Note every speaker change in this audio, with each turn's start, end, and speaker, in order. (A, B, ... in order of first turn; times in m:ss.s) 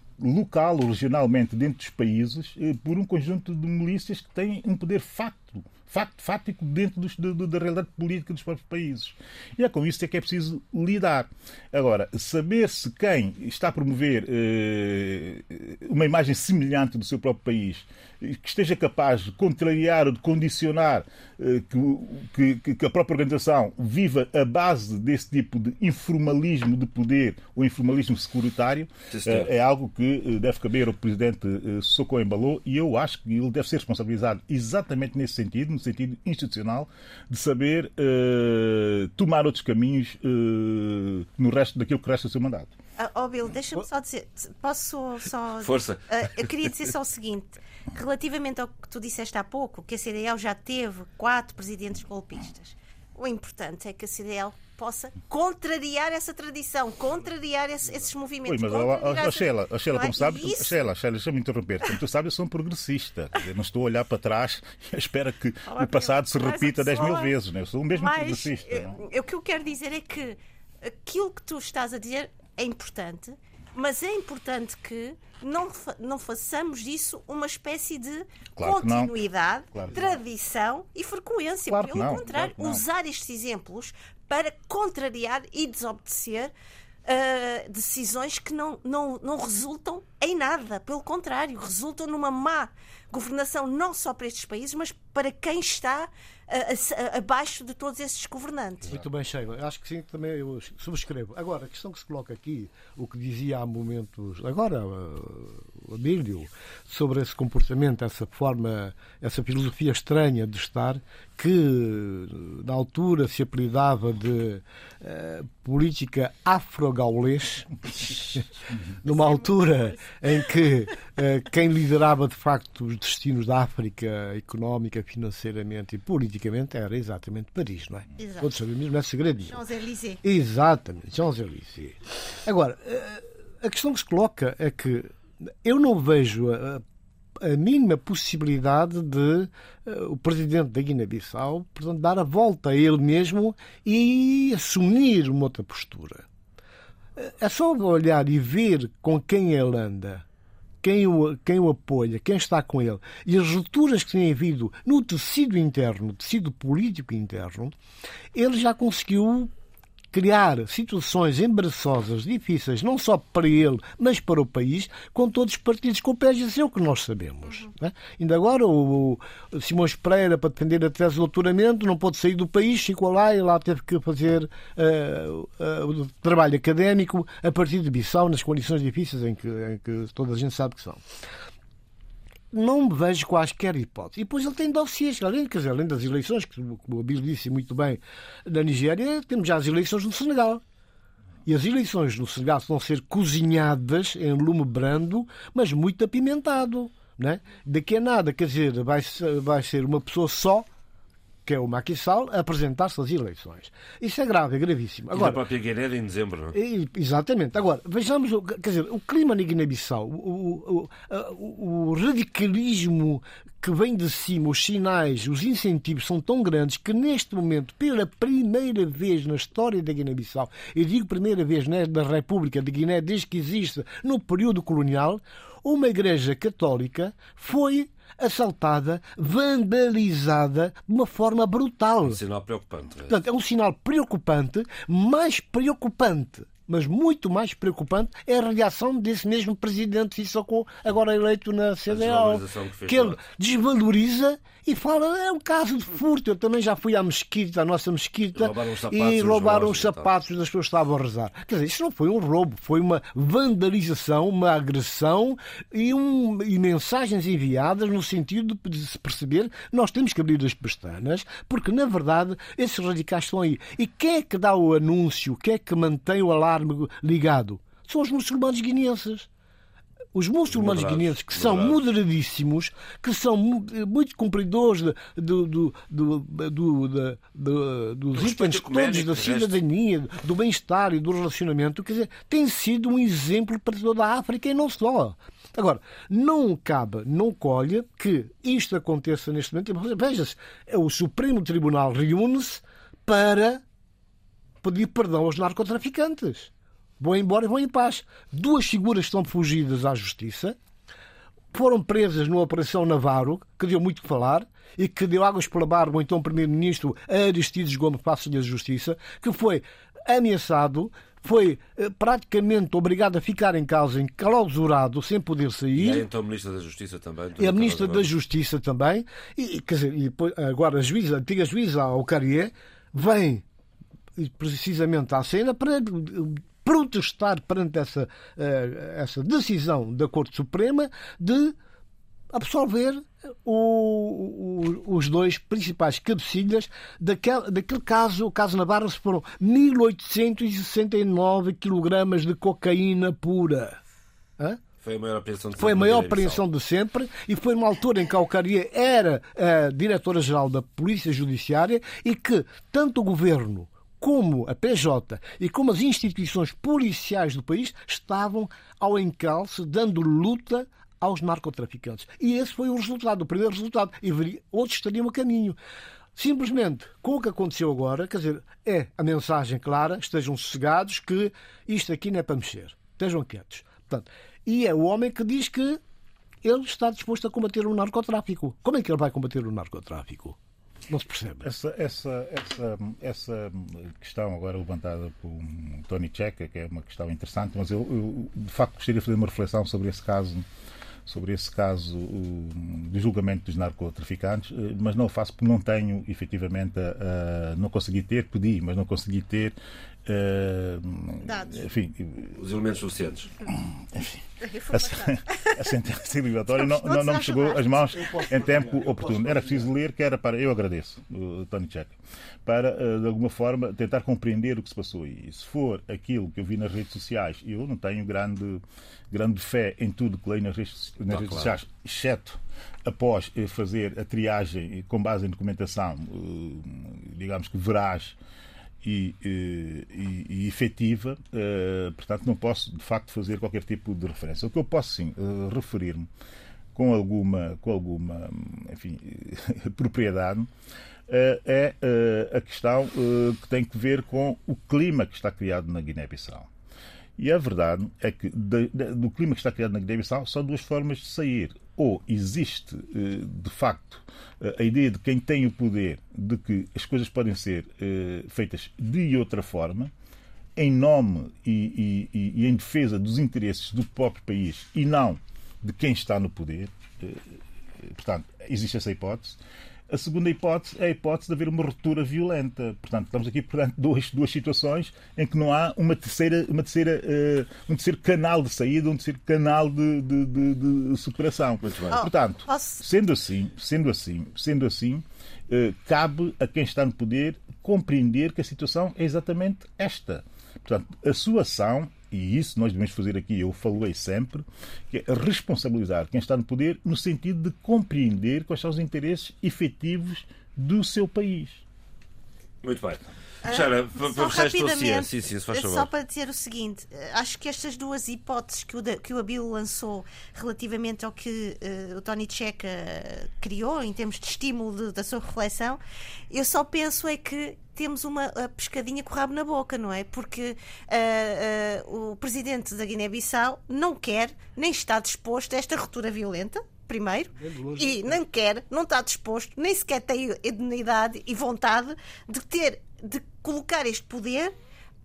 0:00.2-0:42.7 A
0:29.1-0:29.5 B
0:43.0-1:00.8 C
0:45.6-0:46.0 B
0:58.4-1:09.0 A
1:05.6-1:07.3 C
1:07.9-1:26.5 C
1:18.6-1:19.1 A
1:19.7-1:20.2 A
1:21.7-1:22.8 A
1:27.0-1:39.0 C
1:38.9-1:58.4 D
1:59.0-2:09.6 D
1:59.0-2:00.1 C
2:08.2-2:08.5 C
2:09.5-2:10.2 C
2:10.2-2:16.8 D
2:17.4-2:26.2 D
2:27.2-2:30.2 D
2:30.8-2:37.7 D
2:38.3-2:39.5 D
2:40.1-3:01.0 D
3:02.5-3:10.6 D
3:11.4-3:20.7 D
3:21.4-3:25.4 D
3:25.1-3:26.6 B
3:26.5-3:52.2 D
3:52.0-3:53.2 B
3:53.1-4:29.3 D
4:01.9-4:03.2 B
4:08.3-4:10.1 B
4:30.1-4:53.6 D
4:30.5-4:31.8 B
4:38.1-4:39.6 B
4:54.6-5:00.6 D
5:01.5-5:16.0 D
5:15.7-5:18.1 B
5:17.4-5:23.4 D
5:24.2-5:31.6 D
5:32.3-5:43.8 D
5:44.8-5:46.4 B
5:45.6-6:05.6 D
6:06.2-6:15.8 D
6:16.4-6:20.4 D
6:20.9-6:21.5 D
6:21.4-6:30.4 A
6:31.0-6:42.4 A
6:41.2-6:41.6 C
6:42.4-6:43.3 B
6:43.5-7:08.2 A
6:44.4-6:45.6 C
6:46.5-6:48.2 C
6:47.9-6:49.7 D
7:01.1-7:01.6 B
7:08.8-7:16.1 A
7:16.7-7:20.5 A
7:21.1-7:26.5 A
7:27.2-7:39.9 A
7:40.6-7:47.3 A
7:47.8-7:49.4 A
7:49.9-8:21.6 A
8:01.6-8:02.0 B
8:01.9-8:02.8 C
8:22.6-8:25.9 B
8:23.4-8:35.8 C
8:36.3-8:54.5 C
8:47.3-8:48.2 D